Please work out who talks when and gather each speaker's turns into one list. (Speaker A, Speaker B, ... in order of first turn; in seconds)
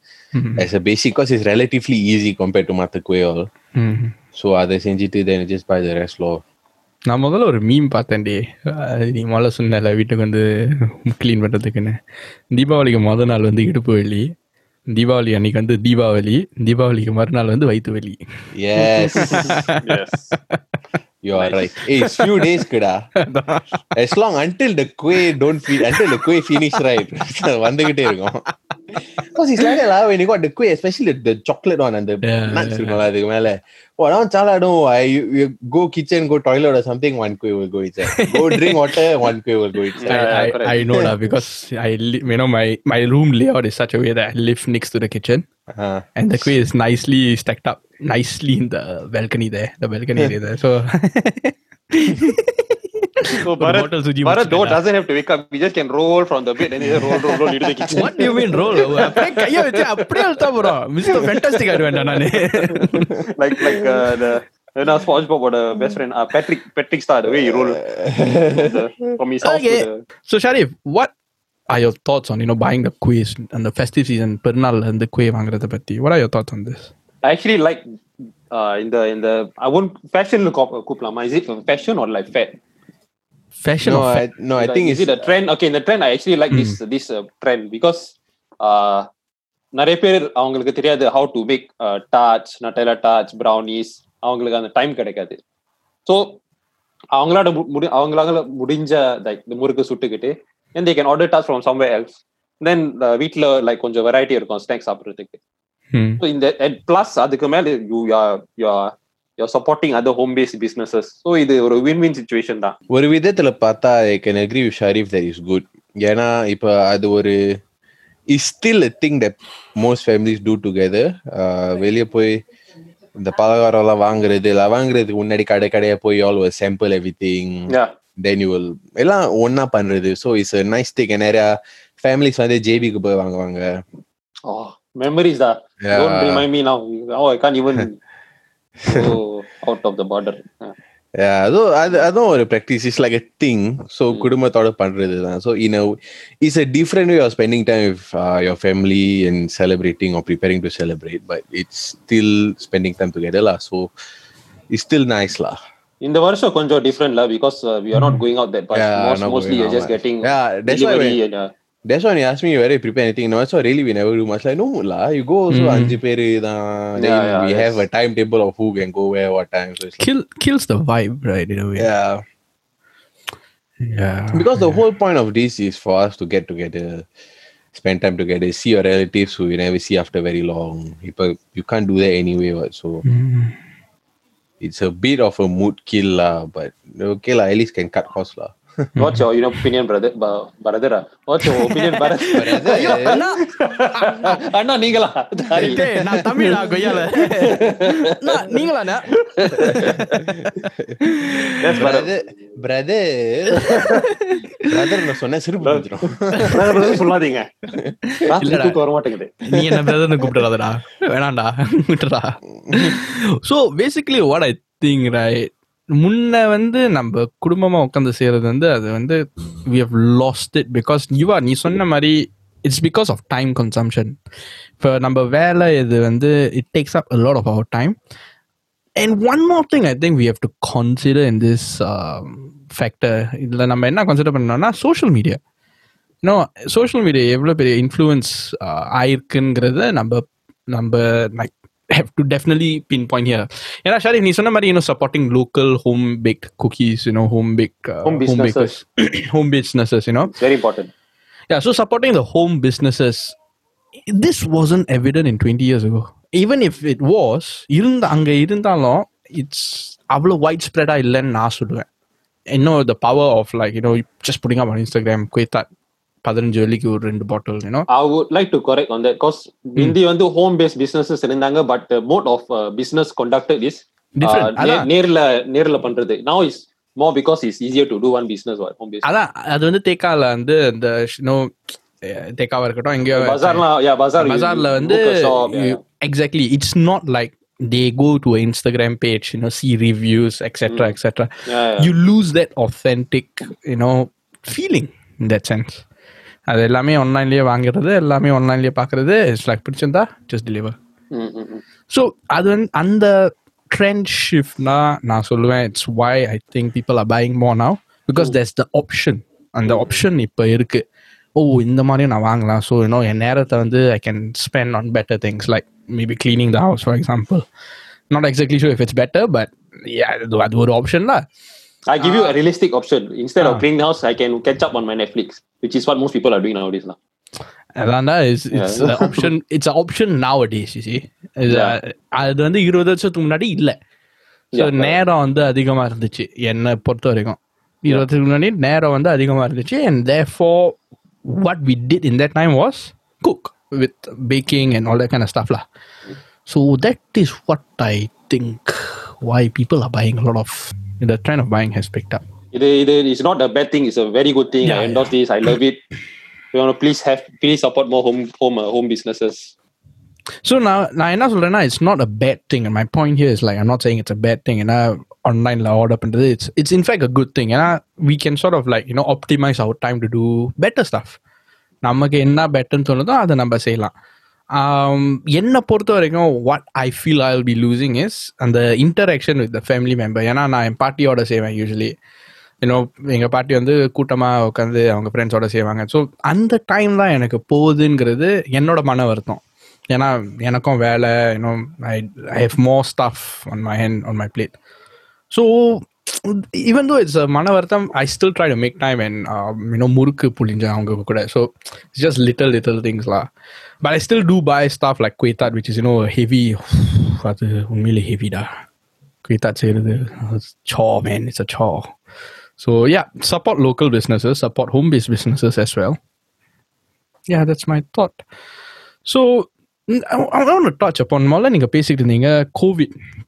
Speaker A: 0.3-0.7, 3.8-4.1, 7.1-12.0, 12.5-14.3, 14.9-18.2, 19.2-19.8, 23.2-23.7, 25.7-26.2, 32.2-33.0, 38.1-39.0, 40.0-45.4, 46.1-54.8, 57.9-63.1, 69.4-71.1, 71.7-76.9, 83.6-84.2, 86.5-86.8, 105.9-106.2, 157.9-158.2, 165.5-165.9, 170.0-171.9, 173.8-174.8, 183.0-183.6, 188.9-189.2, 191.4-194.4, 195.6-199.9, 201.1-201.6, 203.7-204.7, 208.1-208.8, 209.4-224.2, 224.8-227.9, 229.0-235.4, 236.2-250.3, 251.5-253.3, 254.1-261.9, 262.5-265.6, 266.2-267.9, 274.1-274.9, 279.0-283.6, 284.2-295.8, 296.5-300.8, 301.9-310.8, 311.4-317.4, 318.1-321.2, 322.0-322.4, 327.8-333.8, 334.5-345.6, 346.4-352.2, 354.6-355.5, 360.4-371.2, 371.8-373.9, 374.6-381.9, 382.6-394.5, 395.3-403.3, 403.8-408.5, 409.2-411.9, 412.6-416.0, 417.3-418.2, 419.0-422.9
Speaker B: 0.6-3.5, 4.3-6.4, 18.5-19.6, 21.2-23.1, 23.9-28.4, 28.9-40.4, 45.7-46.1, 57.9-58.2, 67.3-68.7, 83.8-85.3, 112.9-117.6, 118.3-122.4, 123.2-133.8, 135.8-136.4, 138.8-139.1, 141.2-153.9, 154.7-155.6, 158.7-161.2, 161.8-170.1, 171.8-172.2, 174.3-177.1, 177.7-183.0, 184.6-188.8, 192.3-193.2, 199.5-201.1, 201.8-203.9, 204.7-207.0, 212.7-213.0
Speaker C: 19.2-20.3, 40.0-40.8, 53.4-58.2, 58.8-59.8, 63.3-67.8, 68.5-70.0, 77.2-77.8, 78.5-82.6, 84.6-89.1, 89.7-95.4, 96.0-96.4, 97.1-105.4, 106.2-112.7, 134.5-138.0, 138.9-140.8, 156.0-161.5, 167.0-167.8, 189.0-195.8, 197.4-198.1, 199.2-200.0, 201.6-202.1, 203.6-204.0, 205.6-207.5, 208.2-209.4, 248.0-248.8, 250.3-250.9, 267.9-279.1, 283.1-285.8, 290.7-290.9, 291.5-291.9, 301.1-301.6, 309.7-309.9, 321.9-326.9, 328.5-329.3, 331.5-331.8, 334.5-334.9, 352.5-355.8, 356.5-359.5